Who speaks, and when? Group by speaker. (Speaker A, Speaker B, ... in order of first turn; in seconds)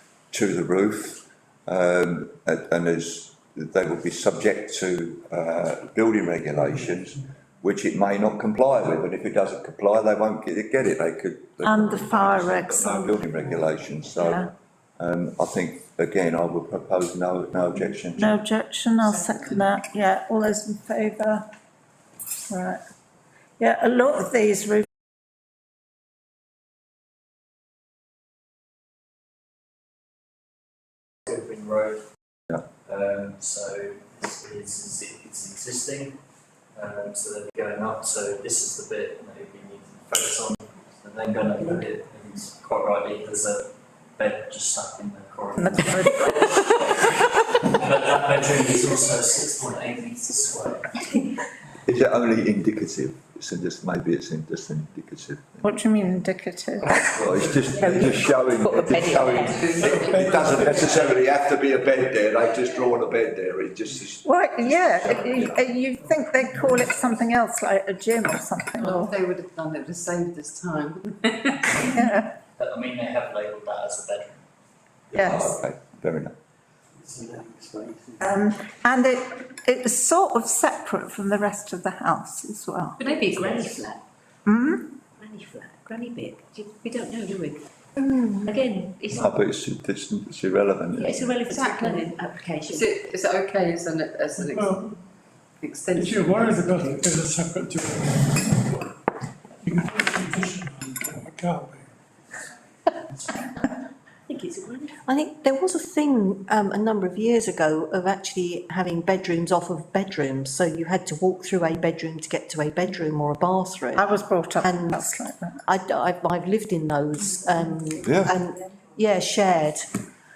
Speaker A: 0.3-18.3, 51.9-55.7, 57.0-65.6, 75.1-76.4, 89.1-91.3, 118.0-118.4
Speaker B: 11.7-13.2, 14.2-14.5, 18.2-21.4, 22.5-22.8, 23.6-24.9, 45.6-46.6, 55.6-57.0, 64.2-69.1, 71.8-72.3, 75.2-75.5, 78.2-83.0, 84.5-85.0, 114.0-115.6
Speaker C: 31.3-32.1, 32.9-36.2, 36.8-51.1, 72.6-74.4
Speaker D: 59.6-59.9, 68.8-71.8, 83.0-83.9, 91.5-94.8, 95.6-97.1
Speaker E: 59.9-60.5, 77.0-78.3, 94.5-94.9, 96.0-98.8, 99.6-101.8
Speaker F: 83.0-84.0, 85.2-87.6, 88.5-89.1, 91.0-93.0, 104.3-104.9
Speaker G: 105.0-115.1, 115.7-120.0